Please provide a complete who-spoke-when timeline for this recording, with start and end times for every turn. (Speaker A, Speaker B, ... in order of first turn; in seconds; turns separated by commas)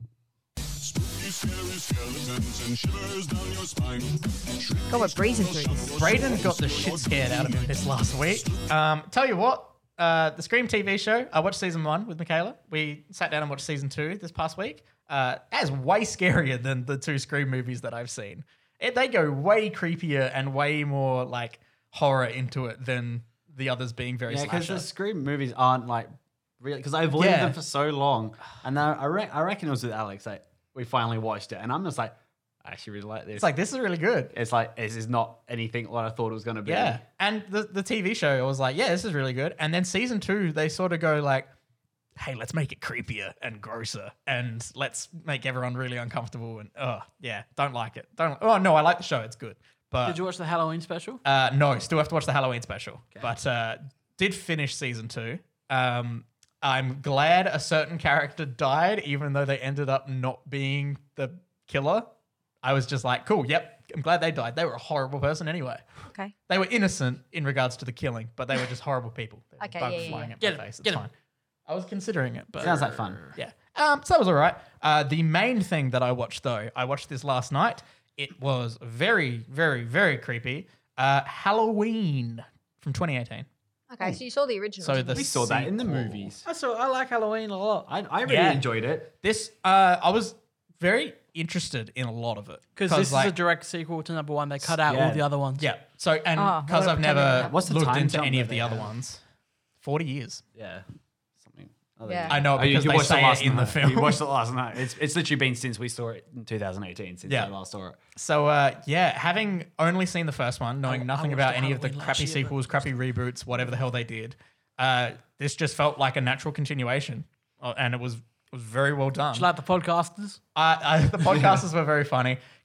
Speaker A: 0.8-8.7, Speaker B: 4.9-5.9, Speaker C: 5.9-24.9, Speaker D: 24.3-33.5, Speaker C: 27.1-27.6, Speaker C: 33.3-34.3, Speaker D: 34.3-37.0, Speaker C: 36.6-41.5, Speaker C: 42.2-50.2, Speaker E: 50.0-51.2, Speaker C: 51.2-62.1, Speaker C: 62.6-65.8, Speaker B: 66.1-66.3, Speaker C: 66.5-71.1, Speaker B: 69.6-70.3, Speaker E: 70.4-71.0, Speaker C: 71.7-83.5, Speaker D: 72.6-73.3, Speaker E: 72.6-73.3, Speaker B: 83.9-85.2, Speaker C: 84.8-86.3, Speaker D: 85.1-86.5, Speaker E: 86.4-87.9, Speaker D: 87.9-89.1, Speaker C: 88.2-93.3, Speaker E: 92.8-95.7, Speaker D: 94.8-95.2, Speaker C: 95.6-99.2, Speaker B: 96.3-97.5, Speaker D: 97.4-98.9, Speaker C: 99.8-100.4, Speaker D: 100.5-100.8, Speaker D: 101.4-108.0, Speaker B: 102.0-102.4, Speaker C: 102.3-104.2, Speaker C: 107.3-107.5, Speaker C: 108.1-119.5, Speaker E: 110.8-112.6, Speaker E: 119.3-120.4, Speaker C: 120.5-122.4